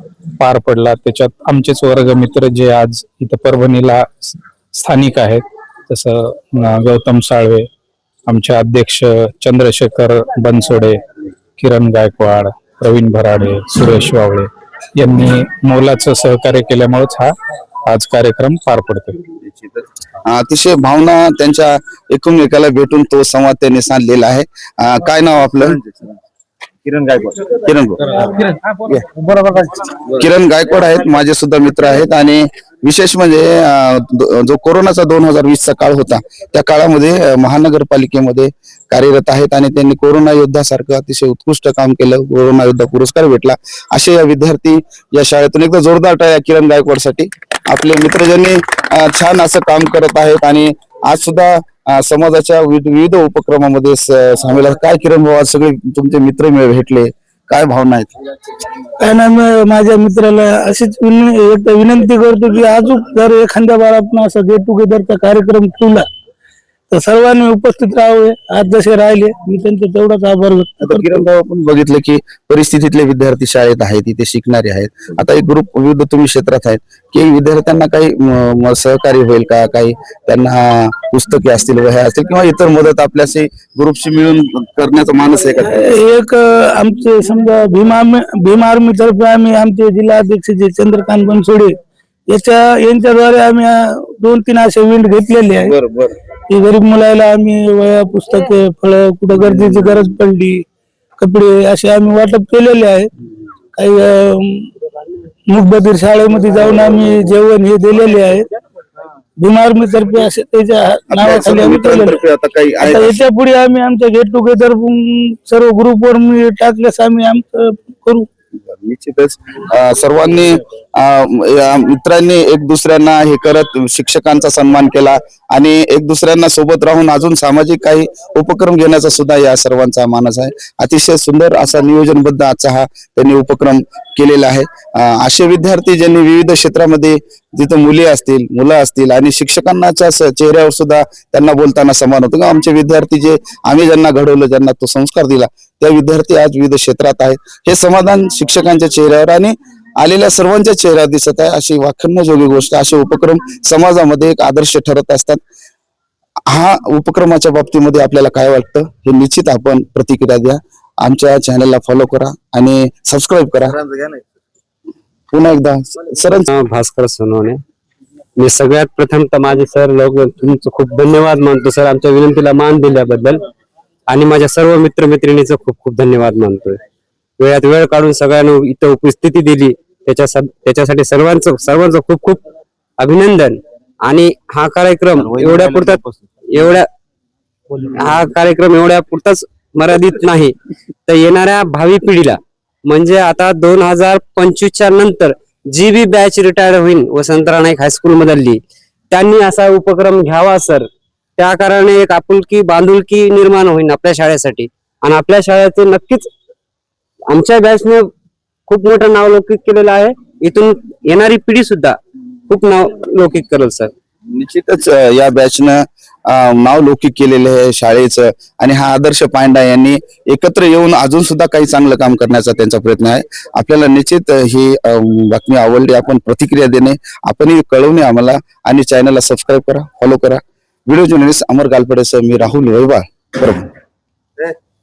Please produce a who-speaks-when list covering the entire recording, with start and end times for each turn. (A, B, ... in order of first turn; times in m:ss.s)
0:00.4-0:07.7 A
0:08.3-0:11.0 A
0:11.6-0:17.3 A
0:17.9-0:19.2 A
0:20.2-0:25.8 B
0:25.6-0:26.2 C
0:26.8-0:27.5 C
0:27.6-0:28.0 B
0:30.2-0:58.1 B
0:59.0-1:06.1 D
1:06.9-1:11.1 D
1:10.8-1:26.0 B
1:25.7-1:31.8 D
1:32.3-1:35.7 D
1:35.6-1:36.2 B
1:36.5-1:40.6 D
1:41.2-1:43.1 D
1:43.8-1:44.8 D
1:45.5-1:48.5 D
1:49.4-1:52.2 D
1:51.1-1:53.2 B
1:52.8-1:58.3 D
1:58.6-2:35.4 B
2:36.5-2:43.8 B
2:43.9-2:44.2 C
2:45.3-2:46.5 B
2:46.5-2:47.6 E
2:48.4-2:53.4 E
2:54.1-2:56.8 E
2:57.4-3:02.4 E
3:03.0-3:06.9 E
3:05.2-3:06.2 C
3:07.8-3:10.5 E
3:11.1-3:18.6 E
3:19.1-3:20.8 E
3:21.4-3:26.3 E
3:27.3-3:28.1 E
3:28.7-3:32.0 E
3:32.5-3:33.9 E
3:34.3-3:53.7 B